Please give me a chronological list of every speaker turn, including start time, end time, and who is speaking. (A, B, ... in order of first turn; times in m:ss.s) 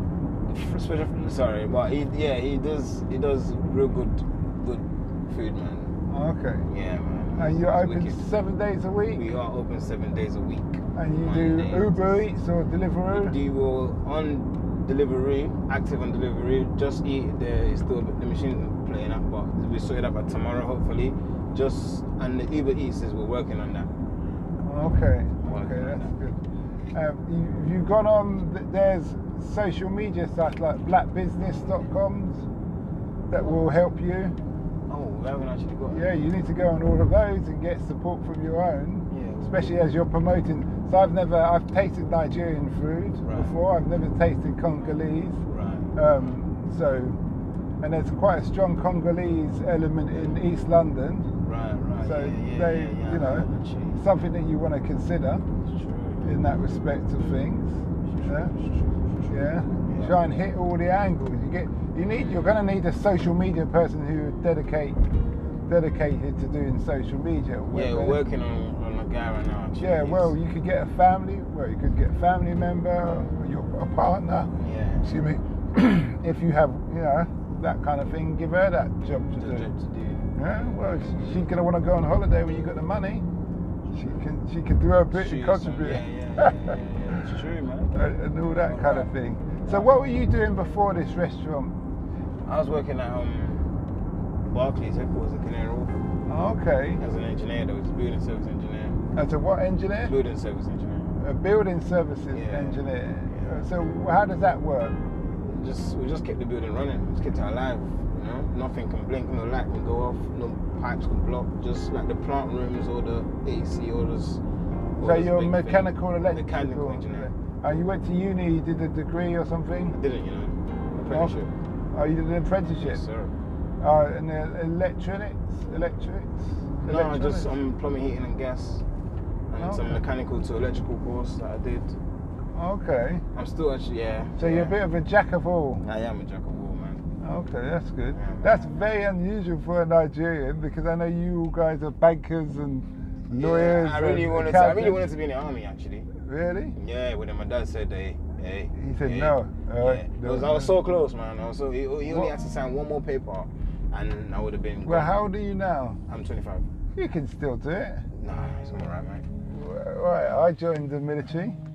0:00.4-0:05.9 A
0:06.1-0:06.7 B
0:06.7-0:08.3 A
0:07.4-0:09.2 B
0:09.1-0:12.2 A
0:11.0-0:13.4 B
0:13.1-0:23.9 A
0:24.6-0:26.4 B
0:25.4-0:26.1 A
0:26.9-0:32.4 B
0:33.3-0:34.4 B
0:34.9-0:36.2 A
0:35.9-0:45.4 B
0:39.1-0:39.8 A
0:43.2-0:43.5 A
0:45.5-0:45.9 A
0:46.0-0:47.2 B
0:47.8-0:51.3 B
0:51.4-0:54.0 A
0:52.0-0:55.4 B
0:55.6-0:56.3 A
0:56.2-0:58.5 B
0:58.0-1:00.2 A
0:59.3-1:05.0 B
1:02.1-1:02.5 A
1:05.7-1:08.2 B
1:07.7-1:10.3 A
1:09.8-1:19.7 B
1:14.6-1:15.1 A
1:19.4-1:20.3 A
1:20.4-1:23.2 B
1:23.9-1:26.8 B
1:25.1-1:27.9 A
1:27.9-1:31.7 B
1:28.6-1:29.9 A
1:32.5-1:33.7 A
1:34.5-1:36.0 A
1:36.3-1:37.0 B
1:37.0-1:39.0 A
1:39.2-1:40.2 B
1:40.0-1:41.1 A
1:41.2-1:45.0 B
1:42.3-1:43.6 A
1:45.4-1:54.4 A
1:55.0-1:57.3 A
1:55.0-2:00.0 B
1:59.9-2:01.5 A
2:01.0-2:01.3 B
2:01.9-2:03.0 B
2:02.8-2:03.3 A
2:03.8-2:07.5 B
2:06.8-2:08.8 A
2:09.5-2:12.0 A
2:09.6-2:10.0 B
2:12.6-2:13.2 B
2:13.3-2:14.8 A
2:14.4-2:15.8 B
2:15.8-2:17.0 A
2:17.2-2:25.0 B
2:18.1-2:18.8 A
2:23.3-2:26.1 A
2:26.2-2:26.8 B
2:26.8-2:35.2 A
2:28.8-2:30.8 B
2:32.1-2:32.3 B
2:34.8-2:36.0 B
2:36.1-2:36.7 A
2:37.0-2:38.1 B
2:38.1-2:39.3 A
2:39.5-2:41.6 B